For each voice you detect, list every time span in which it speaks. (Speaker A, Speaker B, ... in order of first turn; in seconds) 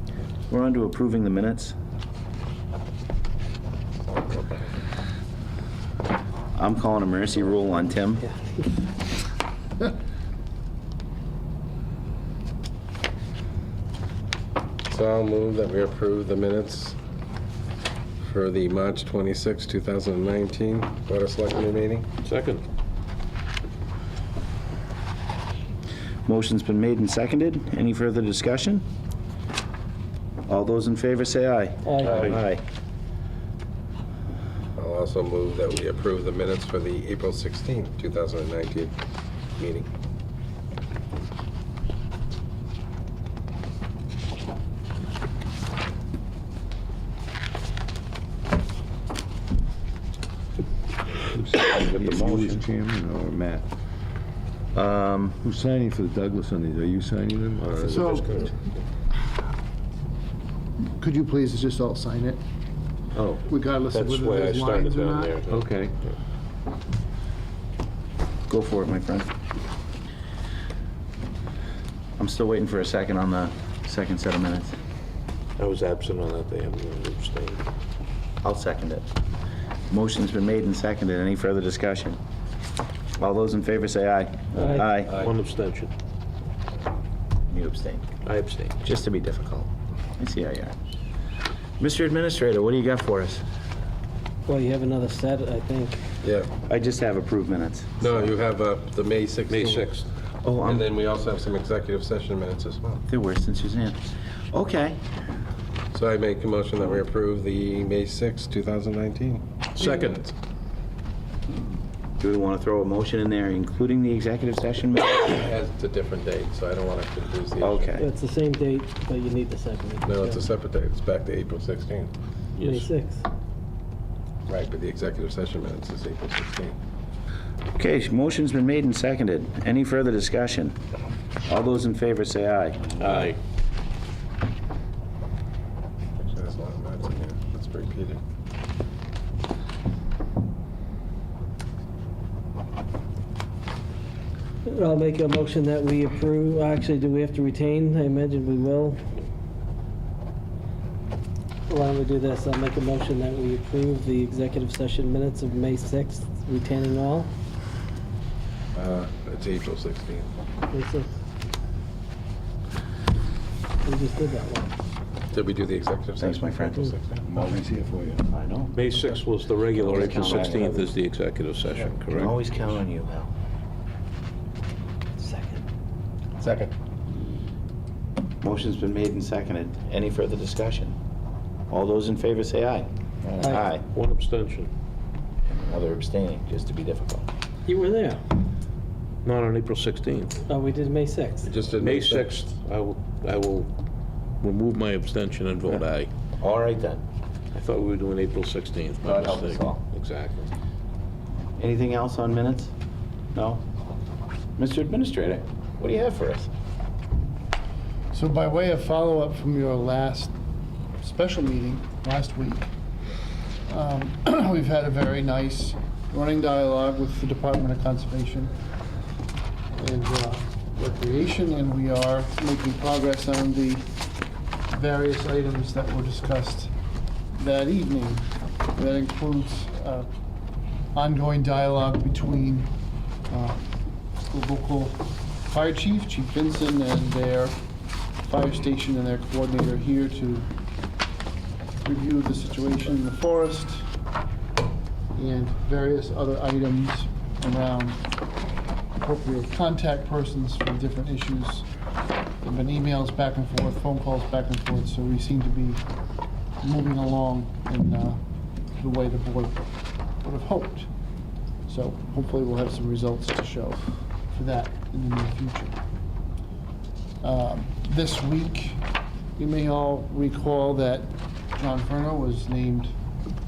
Speaker A: 0.5-1.7, 6.5-8.2, 26.2-28.8, 30.5-32.6, 51.7-52.6, 54.7-55.4, 68.5-69.3, 72.2-74.7, 78.4-79.0, 79.9-82.2, 83.2-85.1, 87.5-88.1, 88.8-90.7, 91.8-93.4, 96.7-98.0, 100.4-100.8, 103.1-105.0, 112.2-115.3, 117.6-118.1, 127.8-130.8, 131.4-132.9, 166.2-166.9, 168.3-168.8, 169.8-170.9, 172.1-173.3, 178.4-181.0, 181.7-183.8, 185.4-187.2, 196.4-197.0, 199.0-199.8, 201.6-202.7, 203.3-203.6, 204.6-206.5
Speaker B: 8.2-8.7, 31.8-32.3, 84.5-84.9, 94.5-96.0, 118.0-120.4, 122.6-123.2, 144.6-149.0, 151.7-157.3, 160.7-161.1, 163.8-164.7, 175.2-175.6, 183.4-183.7, 187.7-188.2, 190.5-191.5
Speaker C: 14.9-17.0, 18.2-22.1, 32.0-32.3, 34.8-38.9, 39.6-39.9, 85.1-85.3, 96.2-96.5, 98.0-99.9, 100.6-103.0, 105.9-110.2, 115.3-117.9, 120.0-122.1, 124.5-126.7, 136.2-138.2, 158.7-160.3, 165.3-167.2, 176.4-176.7, 191.4-192.5
Speaker D: 22.2-22.6, 57.6-58.6, 63.1-65.6, 75.6-77.6, 85.1-85.9, 88.2-88.7, 99.5-100.1, 109.7-110.3, 122.5-122.9, 133.0-133.4, 168.7-172.3, 183.9-184.7, 189.2-190.4, 191.8-193.7, 194.4-196.1, 197.5-200.5
Speaker E: 51.3-53.7, 55.4-58.1, 65.5-65.9, 167.2-168.2
Speaker F: 57.9-58.4, 61.0-62.4, 63.5-65.4, 208.1-210.3, 211.0-212.7, 213.7-218.5, 219.8-223.8, 224.7-226.7, 227.3-230.1, 230.9-232.7, 233.3-233.6, 234.3-237.6, 238.2-240.5, 241.8-243.9, 245.1-248.0, 249.0-251.7, 252.4-255.8, 256.6-258.2, 258.8-259.6, 260.2-260.9, 261.6-265.7, 267.2-268.8, 269.4-272.9